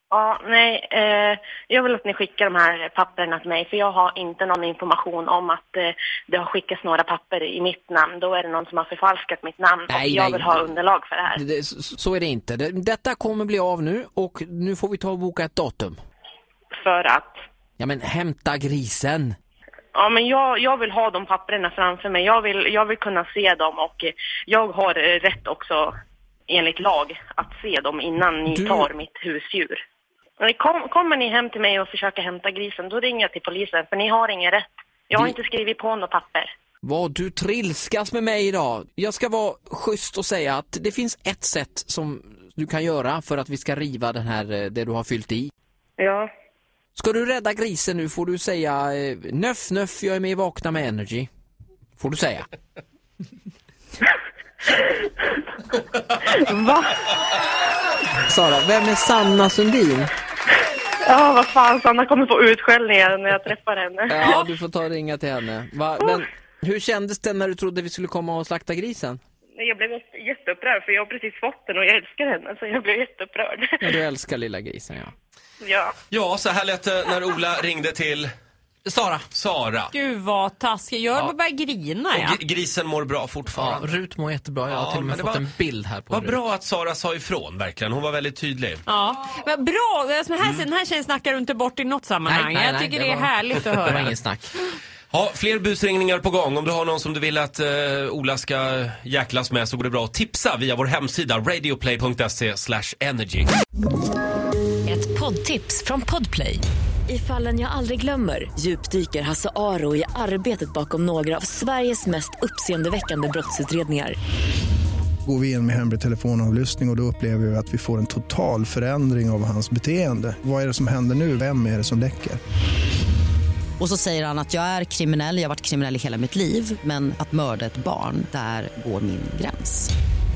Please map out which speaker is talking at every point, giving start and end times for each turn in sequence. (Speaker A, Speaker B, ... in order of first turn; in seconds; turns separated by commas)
Speaker A: 0.1-11.4, Speaker B: 9.9-10.8, Speaker B: 11.3-16.0, Speaker A: 16.8-17.4, Speaker B: 17.8-19.3, Speaker A: 19.9-25.9, Speaker A: 26.5-29.8, Speaker B: 28.5-28.9, Speaker A: 30.4-36.5, Speaker B: 36.8-45.5, Speaker A: 46.0-46.3, Speaker B: 46.9-51.3, Speaker B: 52.0-52.5, Speaker A: 56.2-57.0, Speaker B: 58.2-60.1, Speaker A: 61.1-64.4, Speaker B: 64.1-69.2, Speaker A: 69.6-73.7, Speaker B: 73.8-75.1, Speaker A: 75.6-76.0, Speaker C: 76.1-78.3, Speaker B: 78.8-79.2, Speaker C: 79.3-79.9, Speaker D: 79.9-82.4, Speaker C: 82.1-83.9, Speaker B: 83.5-86.4, Speaker C: 84.7-85.4, Speaker C: 86.1-88.8, Speaker D: 88.9-94.1, Speaker B: 92.2-94.5, Speaker C: 95.1-103.5, Speaker E: 104.8-114.2, Speaker F: 115.2-122.4, Speaker G: 123.8-129.9